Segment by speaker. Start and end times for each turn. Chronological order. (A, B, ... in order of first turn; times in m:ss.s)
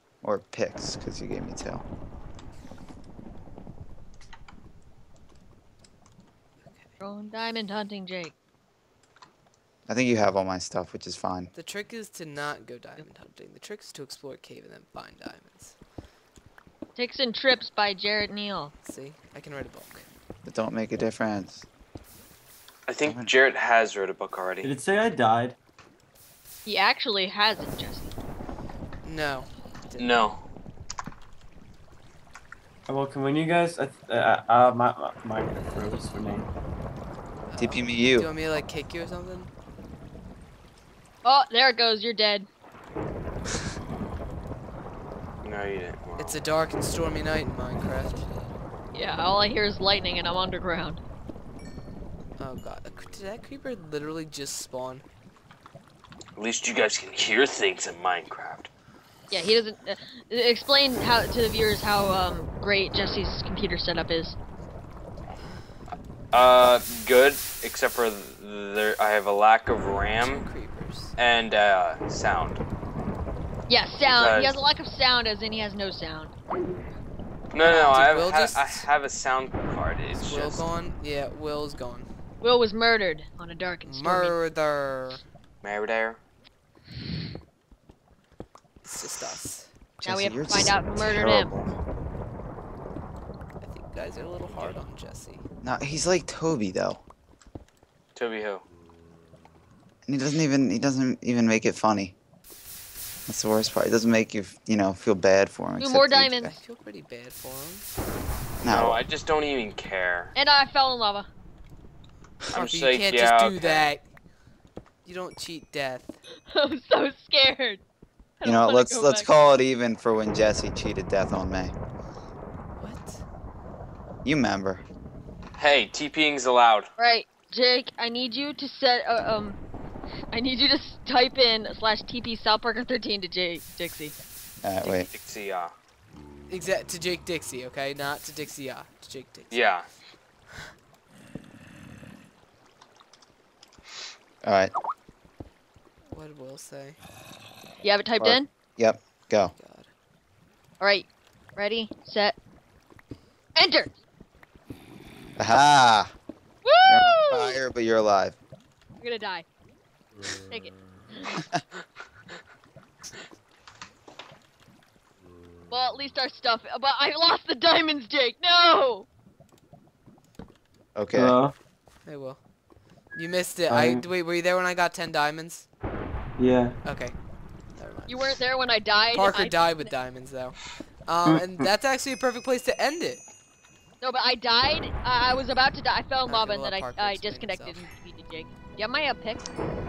0:00.2-0:01.8 A
0:06.6-0:06.9 B
0:07.0-0:08.3 C
0:09.9-0:11.5 A
0:11.5-0:15.8 B
0:17.0-0:18.7 C
0:18.8-0:20.1 B
0:20.4-0:21.7 A
0:22.9-0:24.7 D
0:23.0-0:23.3 A
0:24.6-0:25.6 E
0:26.6-0:28.1 C
0:29.0-0:30.4 B
0:30.0-0:30.4 D
0:32.9-0:36.5 E
0:37.5-0:39.5 B
0:37.6-0:38.5 A
0:41.2-0:42.5 C
0:45.4-0:46.4 D
0:46.2-0:48.3 B
0:48.9-0:51.0 C
0:52.4-0:55.0 B
0:56.4-0:58.7 D
0:59.3-1:04.4 C
1:06.3-1:10.5 D
1:10.2-1:11.2 B
1:11.2-1:12.6 D
1:13.7-1:16.3 C
1:14.0-1:14.6 D
1:17.5-1:20.7 D
1:17.7-1:18.9 B
1:20.1-1:22.1 B
1:22.4-1:24.4 C
1:23.8-1:25.2 B
1:25.6-1:26.2 D
1:28.8-1:29.7 B
1:30.0-1:31.8 A
1:30.1-1:31.5 C
1:33.6-1:35.4 B
1:35.6-1:37.0 A
1:38.2-1:38.6 D
1:40.1-1:42.2 A
1:43.3-1:46.5 A
1:45.8-1:46.5 C
1:46.4-1:47.9 B
1:48.6-1:49.0 A
1:48.6-1:50.4 D
1:50.4-1:51.3 C
1:52.5-1:53.9 D
1:52.5-1:54.0 B
1:55.0-1:56.2 B
1:56.5-1:57.8 C
1:58.4-1:59.3 C
1:58.4-2:01.7 A
2:02.8-2:03.2 B
2:04.2-2:04.8 A
2:05.6-2:06.9 D
2:07.0-2:09.6 C
2:10.3-2:14.2 C
2:14.6-2:15.1 A
2:14.9-2:15.7 D
2:16.5-2:19.7 B
2:19.5-2:19.9 D
2:24.4-2:24.7 A
2:26.1-2:27.0 B
2:27.8-2:28.5 C
2:28.2-2:29.5 A
2:29.6-2:29.9 B
2:30.8-2:32.4 C
2:33.6-2:33.9 C
2:35.4-2:36.1 A
2:36.6-2:37.6 C
2:36.8-2:38.4 A
2:39.0-2:39.4 C
2:40.5-2:41.4 C
2:45.7-2:49.1 C
2:51.0-2:51.4 A
2:51.1-2:51.5 E
2:52.0-2:52.4 B
2:53.2-2:55.7 B
2:53.7-2:54.0 E
2:56.4-2:56.8 E
2:56.8-2:57.2 B
2:57.8-2:58.4 B
2:58.1-2:59.9 C
2:59.1-3:03.2 B
3:01.2-3:01.7 E
3:04.0-3:09.5 C
3:06.3-3:07.9 B